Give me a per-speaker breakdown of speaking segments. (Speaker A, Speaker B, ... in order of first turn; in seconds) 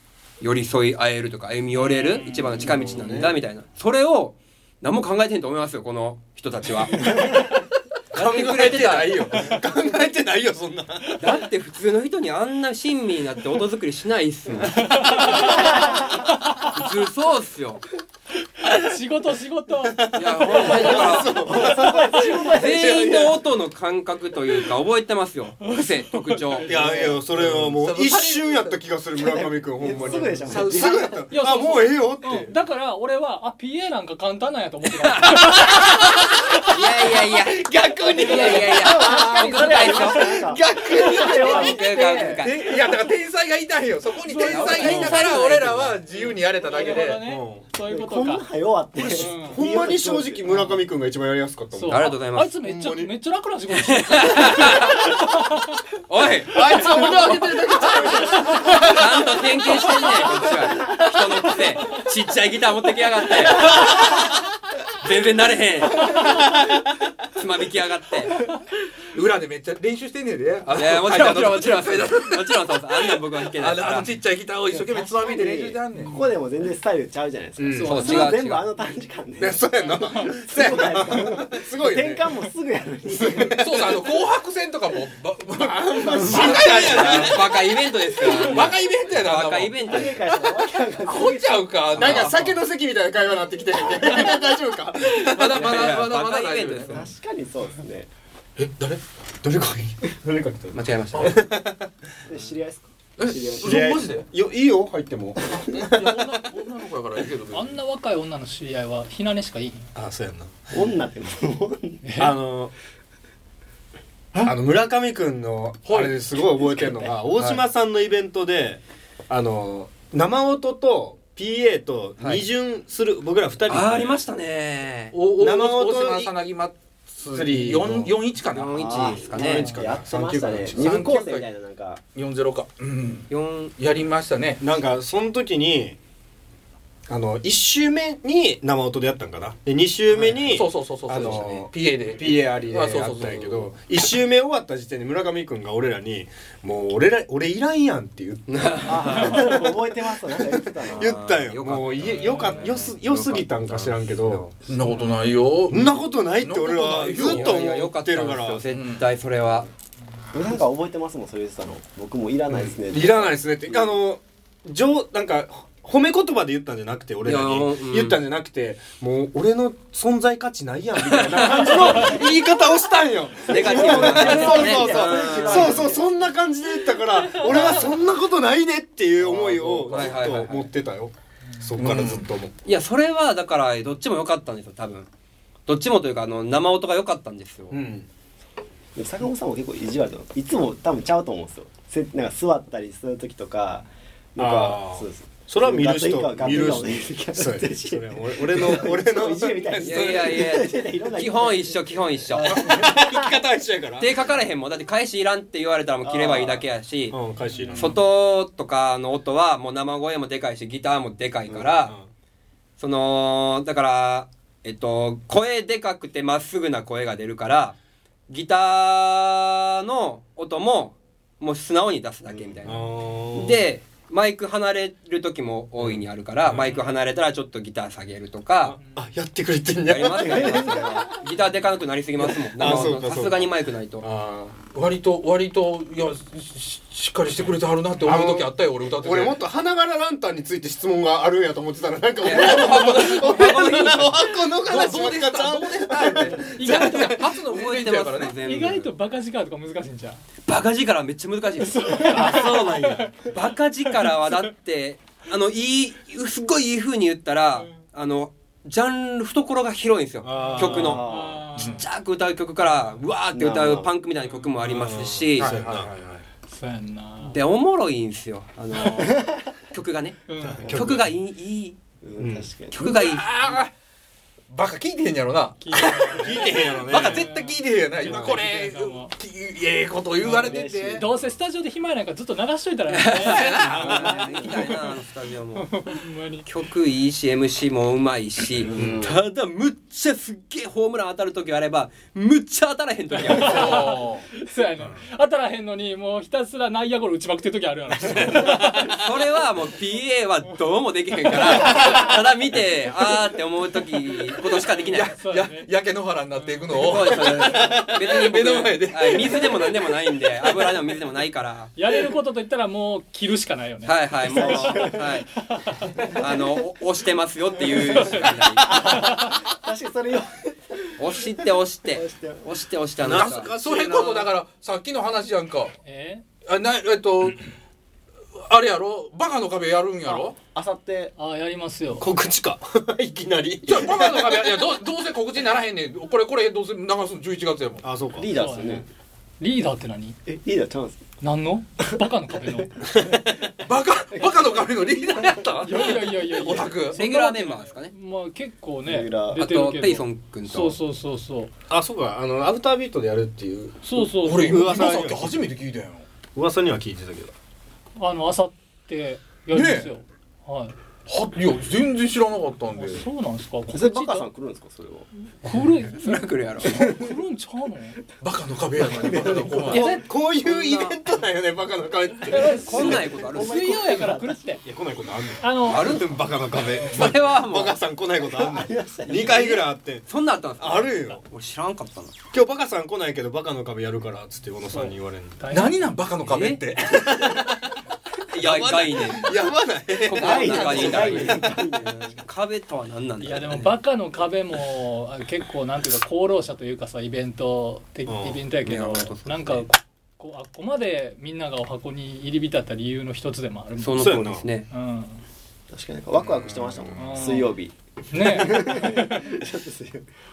Speaker A: 0.4-7.3, 8.1-9.2, 11.2-15.7, 16.7-17.8, 20.1-21.4, 22.5-26.8, 35.0-42.5, 44.5-46.0, 51.9-52.5, 53.7-55.1, 56.1-57.4, 58.5-64.4, 65.0-68.4, 70.7-74.1, 77.8-78.6, 86.3-90.2, 92.0-92.3, 95.4-97.1, 100.7-101.4, 122.2-122.4, 123.7-125.2, 128.5-129.7, 133.3-133.7, 141.1-141.6, 148.5-149.7, 150.8-154.5, 157.1-159.7, 167.2-168.2, 171.0-171.8, 173.4-175.9, 177.4-177.9, 179.9-180.7, 182.6-185.1, 185.7-187.8, 199.8-202.6, 204.0-207.2, 207.8-211.9, 212.8-217.8, 218.3-228.8, 229.8-234.0, 242.2-244.3, 247.4-248.9, 250.5-261.0, 261.6-265.5, 267.2-271.8, 272.7-273.3, 282.9-285.9, 286.4-293.8, 298.8-305.1, 306.7-311.7, 313.8-315.3, 316.1-319.1, 321.0-323.5, 346.9-347.9, 349.4-350.8, 365.9-366.7, 370.4-370.9, 372.3-373.7, 375.7-376.2, 376.8-377.8, 380.1-382.2, 386.2-386.6, 388.3-389.4, 390.0-391.6, 392.2-393.8, 398.6-399.6, 403.8-404.7
Speaker B: 1.7-2.9, 14.7-16.7, 18.6-22.6, 25.6-27.1, 31.3-35.9, 38.2-39.5, 44.2-45.2, 46.2-48.5, 49.1-49.6, 50.5-50.8, 51.7-55.8, 75.9-76.3, 77.8-78.4, 79.7-80.4, 107.5-109.9, 112.0-112.4, 152.2-152.6, 177.2-177.5, 207.5-207.8, 228.8-229.1, 246.5-247.3, 248.4-250.2, 251.7-253.3, 254.0-254.3, 260.3-261.8, 266.5-267.4, 270.3-270.7, 275.6-279.1, 280.2-284.9, 285.6-286.5, 293.1-299.0, 301.4-302.1, 305.1-305.7, 306.4-306.9, 311.8-316.2, 317.7-319.3, 325.8-326.2, 331.2-332.1, 338.2-338.8, 339.4-340.2, 341.2-342.7, 345.6-351.5, 353.8-354.8, 358.0-360.7, 362.8-364.2, 365.3-368.0, 369.7-370.0, 372.3-374.6, 375.4-376.1, 376.6-377.0, 384.7-385.9, 393.2-405.2, 406.9-407.5, 408.1-409.4
Speaker C: 2.6-3.4, 8.6-11.2, 19.9-23.2, 26.6-32.5, 44.8-45.3, 47.2-47.6, 49.0-53.1, 56.5-59.0, 77.6-78.0, 79.4-82.2, 83.1-84.1, 85.5-88.7, 91.9-95.7, 99.4-101.9, 103.6-106.1, 109.9-110.7, 112.2-112.7, 114.4-124.2, 125.4-126.3, 127.3-128.1, 129.3-131.0, 134.6-136.0, 137.1-149.2, 150.4-154.5, 155.7-158.6, 162.5-182.5, 187.7-188.1, 194.4-200.6, 202.4-204.1, 207.1-208.0, 211.6-212.1, 222.6-223.6, 225.8-226.8, 228.6-230.9, 232.2-234.6, 238.0-247.2, 251.9-253.2, 260.2-261.0, 264.6-266.2, 270.5-271.1, 272.2-272.5, 276.1-277.2, 278.0-278.4, 283.7-284.0, 288.7-289.1, 298.1-298.4, 323.0-324.3, 331.9-334.7, 337.8-338.3, 342.9-343.3, 351.7-355.4, 356.3-357.3, 369.7-373.0, 374.6-380.1, 380.6-381.2, 382.3-385.4, 386.9-387.5, 388.3-391.3, 398.1-398.4, 404.0-404.4, 406.2-406.9
Speaker D: 8.1-9.4, 27.3-28.8, 30.1-31.3, 39.4-40.4, 41.0-47.2, 69.1-76.2, 83.6-87.5, 88.2-92.6, 95.2-97.1, 98.6-99.0, 101.1-101.4, 103.2-104.3, 105.8-107.8, 115.8-117.6, 125.1-129.1, 130.7-131.4, 132.1-134.6, 140.3-143.7, 154.7-157.6, 158.7-159.1, 179.2-180.2, 181.8-182.3, 234.7-239.4, 242.2-248.3, 261.6-261.8, 265.4-266.2, 272.7-273.7, 274.5-281.1, 283.2-284.2, 293.3-294.2, 304.9-310.7, 323.1-325.7, 326.4-327.5, 328.3-330.4, 333.6-337.9, 343.6-347.0, 354.2-356.0, 359.5-359.9, 361.1-363.1, 368.2-369.9, 385.5-387.5
Speaker E: 20.5-23.3, 26.8-27.1, 29.1-30.9, 38.1-42.4, 47.9-50.4, 74.7-79.7, 80.4-83.6, 86.4-86.7, 89.8-91.8, 96.9-98.1, 102.2-103.9, 110.7-112.0, 128.5-132.0, 148.9-151.2, 160.3-163.9, 171.7-172.4, 173.5-176.3, 188.9-203.4, 206.0-206.6, 230.1-231.1, 260.7-261.5, 263.3-263.9, 269.1-269.3, 272.0-272.7, 280.2-281.1, 288.6-289.2, 314.2-315.2, 316.0-316.6, 318.6-322.6, 330.0-331.1, 338.1-338.9, 340.2-341.0, 344.2-344.6, 348.8-349.4, 363.7-365.1, 368.8-369.8, 372.7-374.6, 378.2-379.6, 390.1-392.2, 405.7-410.1